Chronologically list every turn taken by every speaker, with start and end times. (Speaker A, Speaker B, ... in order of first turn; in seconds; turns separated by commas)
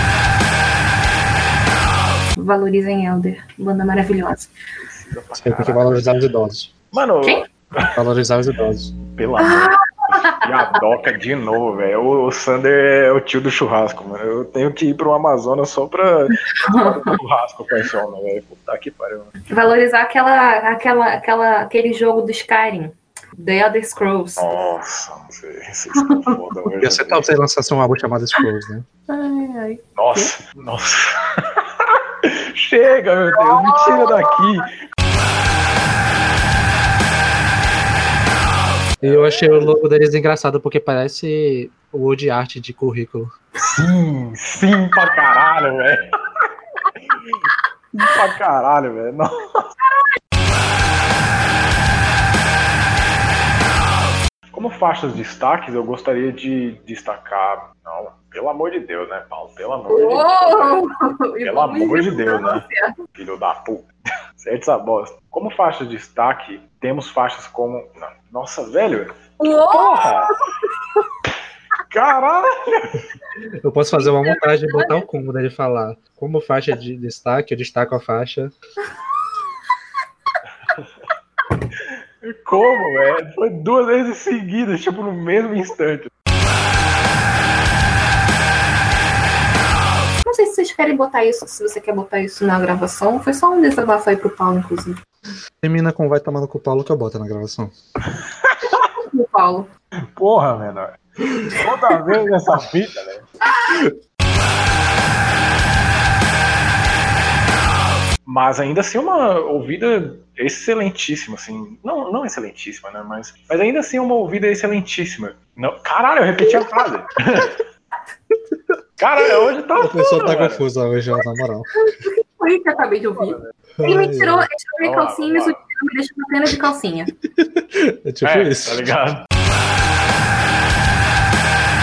Speaker A: 2.4-4.5, Speaker B: 4.8-6.0, Speaker C: 5.4-6.7, Speaker B: 6.9-7.9, Speaker C: 8.0-8.9, Speaker B: 9.1-19.3, Speaker A: 9.4-10.7, Speaker A: 16.5-17.2, Speaker A: 19.5-24.6, Speaker B: 24.4-27.3, Speaker A: 26.0-26.3, Speaker C: 26.8-28.9, Speaker A: 29.1-30.3, Speaker B: 29.9-34.7, Speaker A: 33.3-34.4, Speaker B: 39.0-39.8, Speaker C: 39.0-43.3, Speaker B: 43.6-46.5, Speaker B: 47.1-47.4, Speaker B: 47.9-49.6, Speaker B: 54.5-60.8, Speaker A: 59.9-62.9, Speaker B: 61.4-70.3, Speaker A: 69.4-71.0, Speaker B: 71.9-73.0, Speaker C: 73.6-78.5, Speaker A: 74.0-75.0, Speaker B: 82.2-86.1, Speaker A: 82.5-83.1, Speaker A: 90.2-95.0, Speaker C: 95.6-97.7, Speaker B: 98.4-98.9, Speaker A: 99.0-99.7, Speaker B: 100.1-103.3, Speaker B: 108.2-117.6, Speaker A: 116.5-116.8, Speaker B: 119.0-120.6, Speaker C: 119.8-121.7, Speaker A: 121.8-127.1, Speaker C: 123.8-124.5, Speaker B: 124.8-125.6, Speaker C: 127.2-128.9, Speaker B: 128.2-129.2